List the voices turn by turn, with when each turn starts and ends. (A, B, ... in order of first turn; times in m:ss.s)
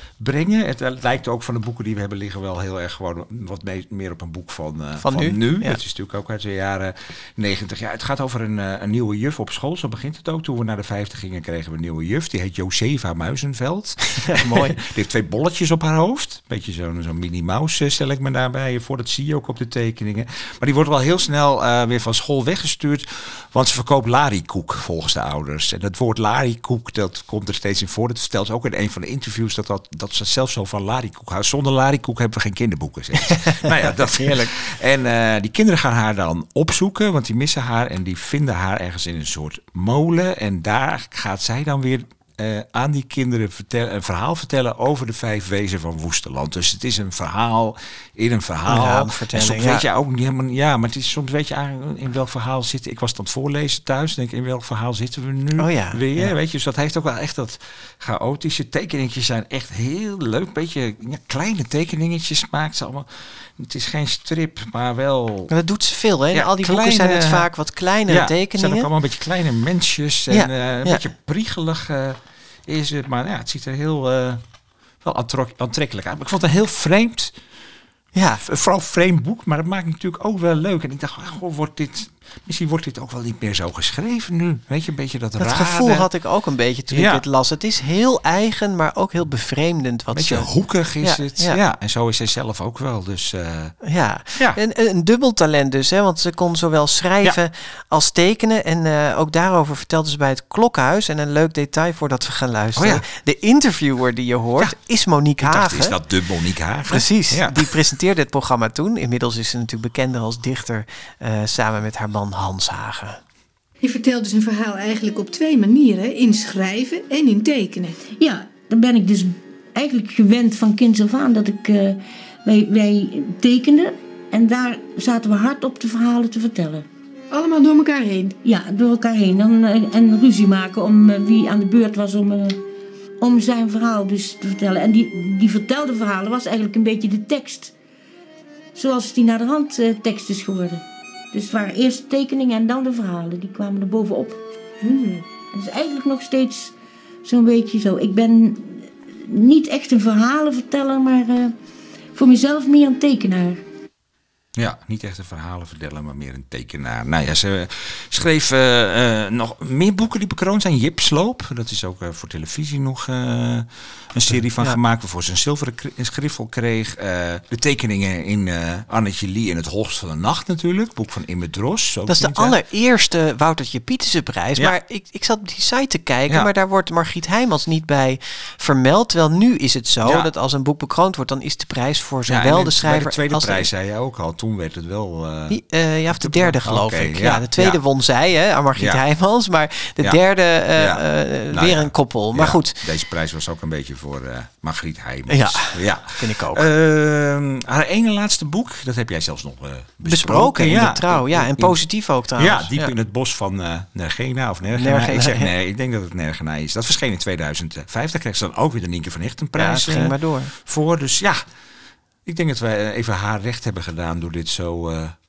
0:00.2-1:05.5 A
0:05.0-0:05.8 B
0:14.1-0:14.8 B
0:33.4-0:34.5 B
0:48.7-0:49.9 B
0:55.6-0:56.3 B
1:05.5-1:08.9 B
1:06.3-1:07.5 A
1:08.1-1:14.4 A
1:10.3-1:11.0 B
1:15.0-1:17.4 A
1:18.2-1:18.4 B
1:18.4-1:26.1 A
1:25.4-1:30.5 B
1:26.9-1:27.2 A
1:30.1-1:33.8 A
1:31.0-1:31.6 B
1:33.8-1:46.0 B
1:42.8-1:43.0 A
1:45.4-1:47.7 A
1:46.9-1:53.2 B
1:53.8-1:58.0 C
1:58.2-2:06.9 D
2:07.3-2:08.4 C
2:08.4-2:12.6 D
2:13.2-2:17.7 D
2:18.8-2:24.4 D
2:25.4-2:31.5 D
2:32.2-2:33.6 D
2:34.6-2:52.6 A
2:52.1-3:03.7 B
3:00.0-3:00.3 A
3:02.3-3:07.8 A
3:05.5-3:12.8 B
3:08.8-3:09.0 A
3:10.8-3:21.8 A
3:15.3-3:16.7 B
3:20.0-3:22.9 B
3:22.4-3:31.4 A
3:24.8-3:25.5 B
3:29.6-3:30.5 B
3:32.3-3:35.2 A